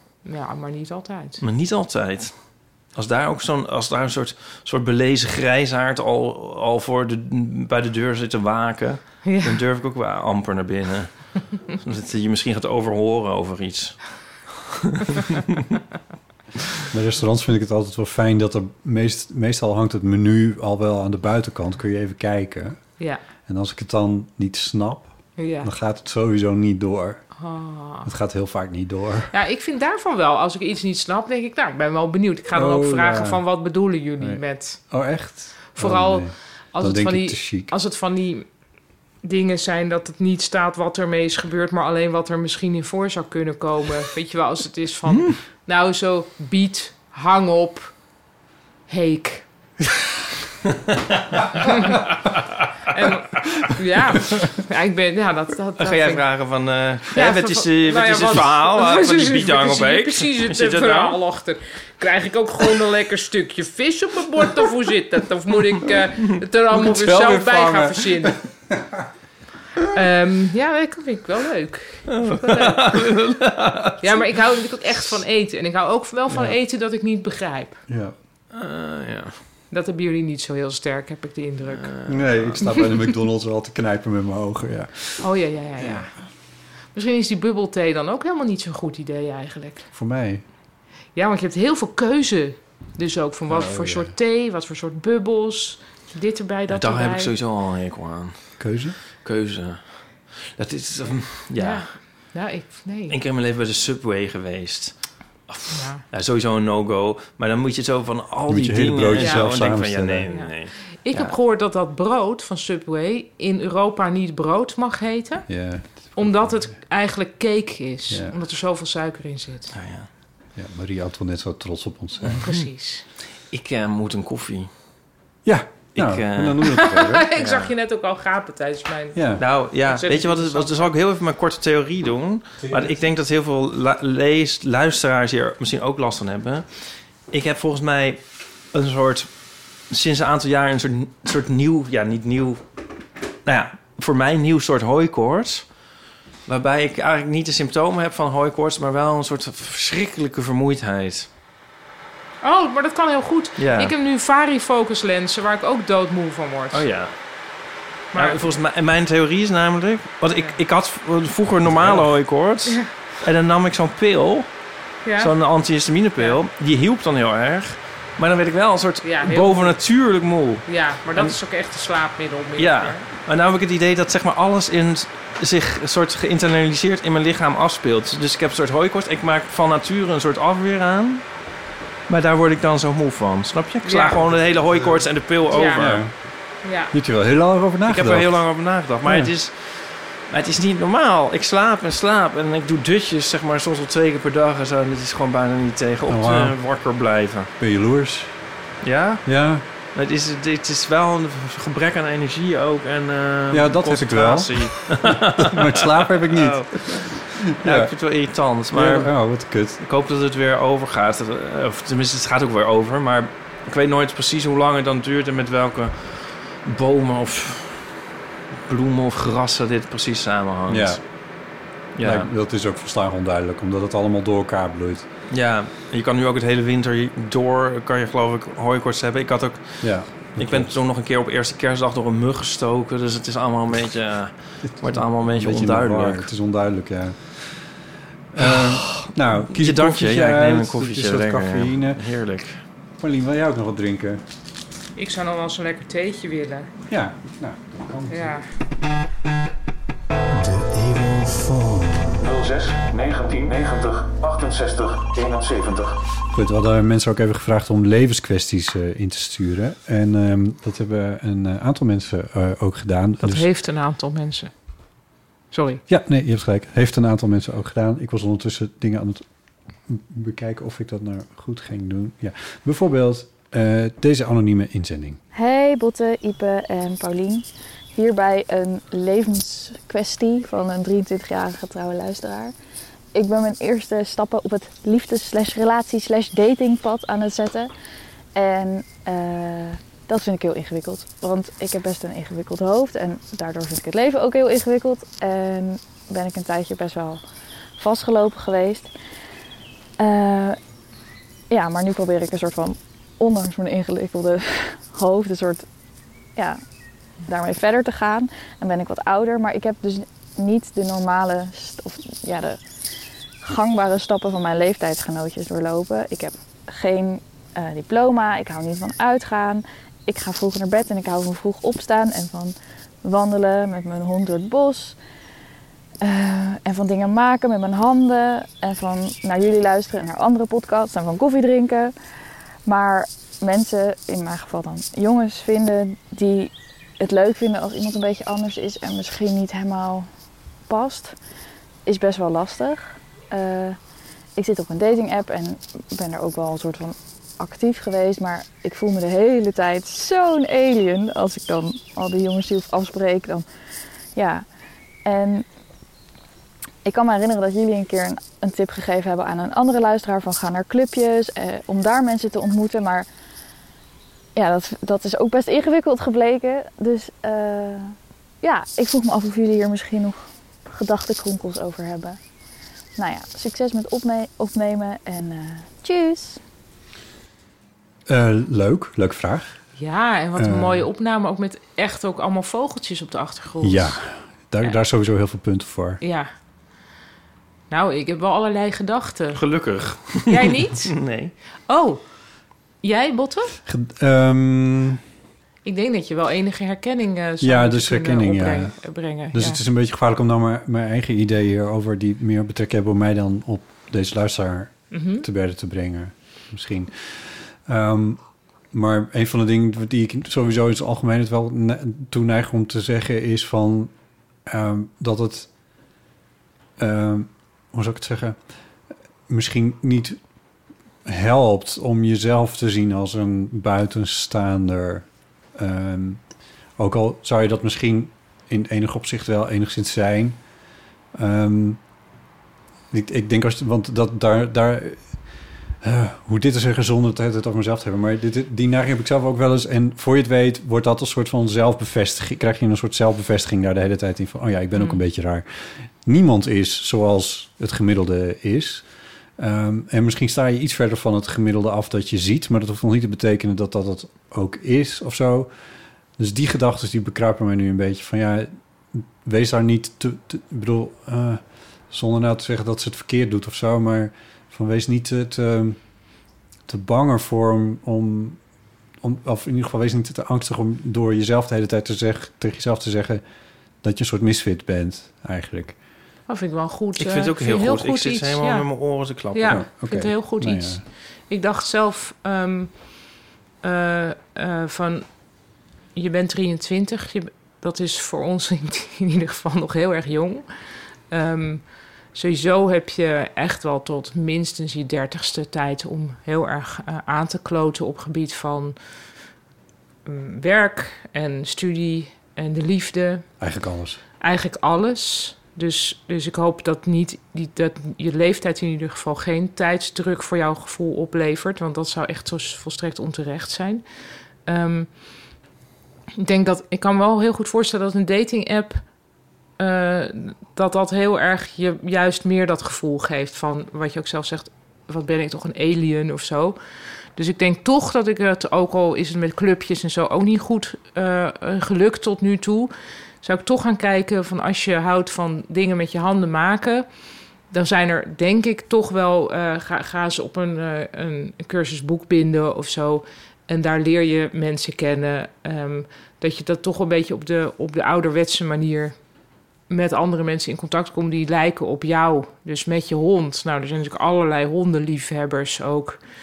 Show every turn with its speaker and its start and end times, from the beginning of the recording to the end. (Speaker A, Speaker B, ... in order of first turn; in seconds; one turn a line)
Speaker A: 0.2-1.4
Speaker B: 1.4-2.4
Speaker B: 2.9-14.2
Speaker A: 9.2-9.6
Speaker C: 16.9-22.8
Speaker C: 23.4-27.3
Speaker A: 25.4-25.7
Speaker A: 27.4-28.1
Speaker C: 28.0-29.3
Speaker A: 29.3-34.8
Speaker C: 32.5-33.4
Speaker C: 34.2-37.7
Speaker A: 35.7-38.5
Speaker A: 39.2-48.0
Speaker B: 45.1-45.4
Speaker A: 48.9-49.5
Speaker B: 51.3-52.4
Speaker A: 51.6-52.0
Speaker A: 52.9-56.3
Speaker B: 55.8-61.2
Speaker A: 57.1-68.4
Speaker C: 66.7-69.0
Speaker A: 69.9-73.0
Speaker B: 72.1-74.3
Speaker A: 74.0-77.8
Speaker C: 76.3-76.5
Speaker C: 77.9-78.1
Speaker B: 78.5-79.4
Speaker A: 79.7-81.9
Speaker B: 81.7-82.5
Speaker C: 82.0-85.3
Speaker A: 85.2-86.1
Speaker C: 85.8-86.1
Speaker A: 86.9-89.9
Speaker C: 89.9-90.4
Speaker A: 91.1-97.3
Speaker C: 93.5-94.1
Speaker B: 96.7-98.6
Speaker C: 98.6-99.0
Speaker B: 99.2-102.0
Speaker A: 101.6-103.1
Speaker B: 103.1-105.0
Speaker B: 105.5-111.3
Speaker A: 105.7-106.0
Speaker C: 108.5-110.3
Speaker A: 109.2-109.5
Speaker A: 110.3-119.7
Speaker C: 115.5-116.7
Speaker C: 118.1-118.4
Speaker B: 119.7-120.1
Speaker C: 120.5-122.4
Speaker A: 122.3-123.0
Speaker B: 123.5-124.7
Speaker C: 125.4-127.2
Speaker B: 125.9-126.7
Speaker A: 126.7-129.2
Speaker B: 127.3-127.7
Speaker C: 129.1-129.4
Speaker B: 129.4-136.7
Speaker A: 129.8-130.9
Speaker C: 132.6-132.9
Speaker B: 137.3-139.3
Speaker B: 139.9-142.6
Speaker B: 143.4-145.7
Speaker B: 146.5-151.3
Speaker A: 152.4-156.8
Speaker B: 153.6-153.9
Speaker B: 156.7-157.1
Speaker A: 158.1-158.6
Speaker B: 158.1-164.5
Speaker C: 161.7-162.0
Speaker A: 165.0-165.3
Speaker B: 165.2-171.3
Speaker A: 169.0-169.8
Speaker A: 170.7-173.0
Speaker B: 172.6-181.2
Speaker B: 182.1-186.0
Speaker A: 183.8-184.2
Speaker A: 185.5-185.8
Speaker C: 185.8-186.1
Speaker A: 186.6-186.9
Speaker C: 186.9-188.4
Speaker B: 187.9-197.5
Speaker C: 189.0-189.3
Speaker C: 196.1-196.6
Speaker C: 197.6-198.3
Speaker B: 198.8-199.3
Speaker C: 199.2-199.6
Speaker B: 199.9-209.1
Speaker C: 203.5-207.9
Speaker C: 208.7-209.8
Speaker B: 209.8-217.9
Speaker B: 218.7-221.0
Speaker C: 220.7-221.0
Speaker B: 222.0-222.3
Speaker C: 222.0-225.0
Speaker B: 225.3-236.3
Speaker C: 229.8-230.7
Speaker C: 234.8-237.4
Speaker C: 238.3-242.0
Speaker B: 238.4-242.6
Speaker C: 243.0-244.2
Speaker A: 244.9-246.7
Speaker C: 246.9-248.3
Speaker A: 248.1-248.4
Speaker C: 250.3-263.5
Speaker A: 263.2-264.5
Speaker A: 265.5-265.8
Speaker C: 265.9-269.2
Speaker C: 269.9-275.2
Speaker D: 275.3-282.5
Speaker D: 283.1-287.7
Speaker D: 288.3-297.2
Speaker D: 297.8-298.9
Speaker D: 300.0-300.6
Speaker D: 301.5-305.6
Speaker D: 307.2-312.6
Speaker D: 313.4-325.0
Speaker D: 326.0-331.9
Speaker D: 332.6-340.1
Speaker D: 340.7-341.2
Speaker D: 341.9-343.8
Speaker D: 344.4-353.4
Speaker D: 354.1-354.4
Speaker D: 355.0-355.4
Speaker D: 356.8-363.1
Speaker D: 364.3-372.2
Speaker D: 372.9-376.4
Speaker C: 378.1-379.6
Speaker A: 379.8-384.0
Speaker C: 380.4-380.8
Speaker C: 383.6-386.0
Speaker A: 386.0-386.3
Speaker A: 387.7-389.4
Speaker B: 389.3-391.3
Speaker A: 390.3-390.9
Speaker A: 391.7-392.0
Speaker A: 392.8-393.6
Speaker C: 393.6-395.0
Speaker A: 395.6-399.6
Speaker C: 397.4-413.9
Speaker A: 404.9-405.2
Speaker C: 414.4-415.5
Speaker C: 416.8-418.4
Speaker C: 419.3-420.2
Speaker C: 421.0-426.2
Speaker C: 426.8-430.4
Speaker C: 431.1-431.8
Speaker C: 432.9-435.1
Speaker C: 435.8-448.9
Speaker A: 444.8-445.0
Speaker C: 449.4-455.5
Speaker C: 456.2-465.8
Speaker C: 466.7-468.4
Speaker C: 469.0-473.2
Speaker C: 473.8-475.8
Speaker A: 476.3-478.7
Speaker B: 477.0-479.6
Speaker A: 479.3-483.1
Speaker C: 479.5-480.8
Speaker A: 483.6-485.1
Speaker A: 485.9-490.4
Speaker A: 491.1-498.8
Speaker A: 500.1-503.2
Speaker C: 503.4-504.0
Speaker A: 504.2-513.8
Speaker A: 514.5-515.0
Speaker A: 516.2-518.8
Speaker A: 519.6-526.6
Speaker A: 527.1-536.9
Speaker A: 537.5-549.0
Speaker A: 549.7-556.0